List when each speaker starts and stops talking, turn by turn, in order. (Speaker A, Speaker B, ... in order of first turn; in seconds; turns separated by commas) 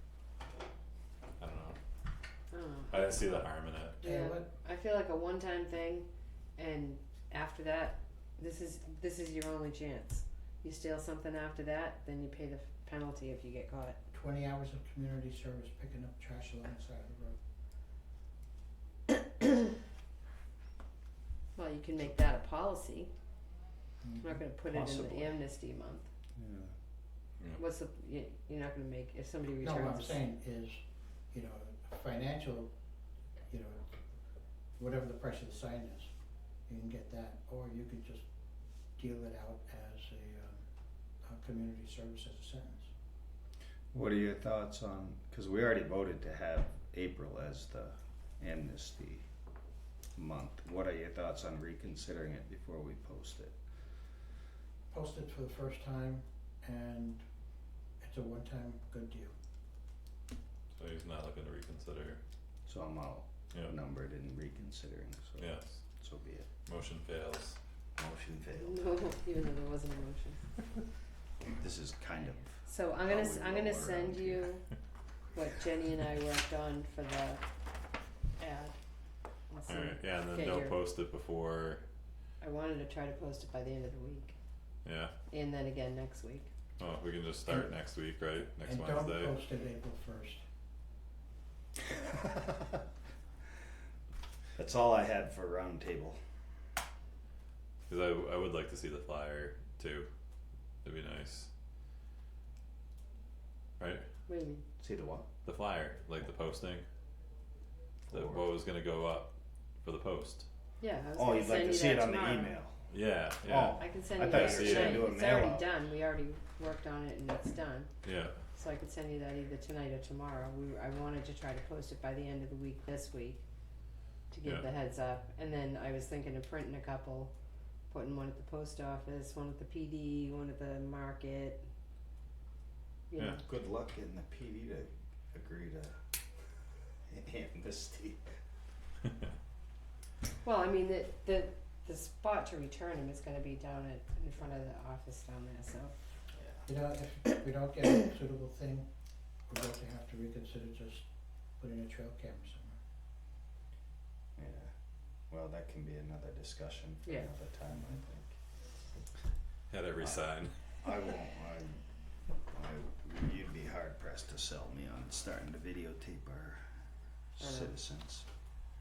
Speaker A: 1.4-1.8, Speaker B: 2.5-3.4, Speaker A: 2.9-4.0, Speaker C: 4.0-4.5, Speaker B: 4.0-14.0, Speaker C: 14.1-17.4, Speaker B: 21.5-23.1, Speaker C: 24.0-24.4, Speaker B: 24.2-26.1, Speaker D: 24.7-25.3, Speaker D: 26.4-26.7, Speaker B: 27.6-30.2, Speaker C: 29.6-32.7, Speaker C: 33.5-33.8, Speaker C: 34.8-36.1, Speaker C: 36.7-38.2, Speaker C: 39.0-40.6, Speaker C: 41.2-42.9, Speaker D: 43.9-49.2, Speaker D: 50.1-53.5, Speaker C: 54.9-57.2, Speaker C: 58.0-59.3, Speaker A: 60.7-62.2, Speaker D: 62.6-66.5, Speaker A: 65.4-65.8, Speaker A: 66.7-67.6, Speaker D: 68.0-68.9, Speaker B: 68.6-70.4, Speaker D: 71.5-74.5, Speaker B: 72.6-74.6, Speaker B: 75.3-77.4, Speaker B: 78.4-78.8, Speaker B: 79.5-80.8, Speaker A: 79.7-81.8, Speaker B: 82.4-84.3, Speaker A: 84.8-85.1, Speaker B: 85.3-86.5, Speaker A: 86.8-89.4, Speaker C: 88.6-90.4, Speaker D: 94.6-96.2, Speaker A: 97.9-100.1, Speaker A: 100.8-101.5, Speaker A: 103.8-104.0, Speaker B: 104.3-104.6, Speaker D: 104.8-105.2, Speaker A: 105.4-106.8, Speaker D: 108.1-108.5, Speaker A: 108.1-109.3, Speaker A: 109.8-110.5, Speaker B: 110.8-112.6, Speaker D: 111.1-112.8, Speaker A: 112.9-115.1, Speaker D: 113.4-115.7, Speaker B: 113.8-117.9, Speaker A: 118.0-118.3, Speaker B: 118.5-123.4, Speaker B: 124.3-127.3, Speaker B: 127.9-131.6, Speaker B: 133.1-133.4, Speaker A: 133.2-133.4, Speaker D: 133.4-136.2, Speaker D: 137.1-138.4, Speaker B: 140.4-145.9, Speaker D: 146.4-146.6, Speaker C: 146.7-148.9, Speaker C: 149.5-151.1, Speaker C: 151.6-152.8, Speaker D: 154.3-154.7, Speaker D: 155.3-158.3, Speaker A: 159.7-160.6, Speaker D: 160.0-160.3, Speaker D: 160.8-161.8, Speaker D: 162.4-166.8, Speaker D: 167.3-168.3, Speaker B: 167.4-167.7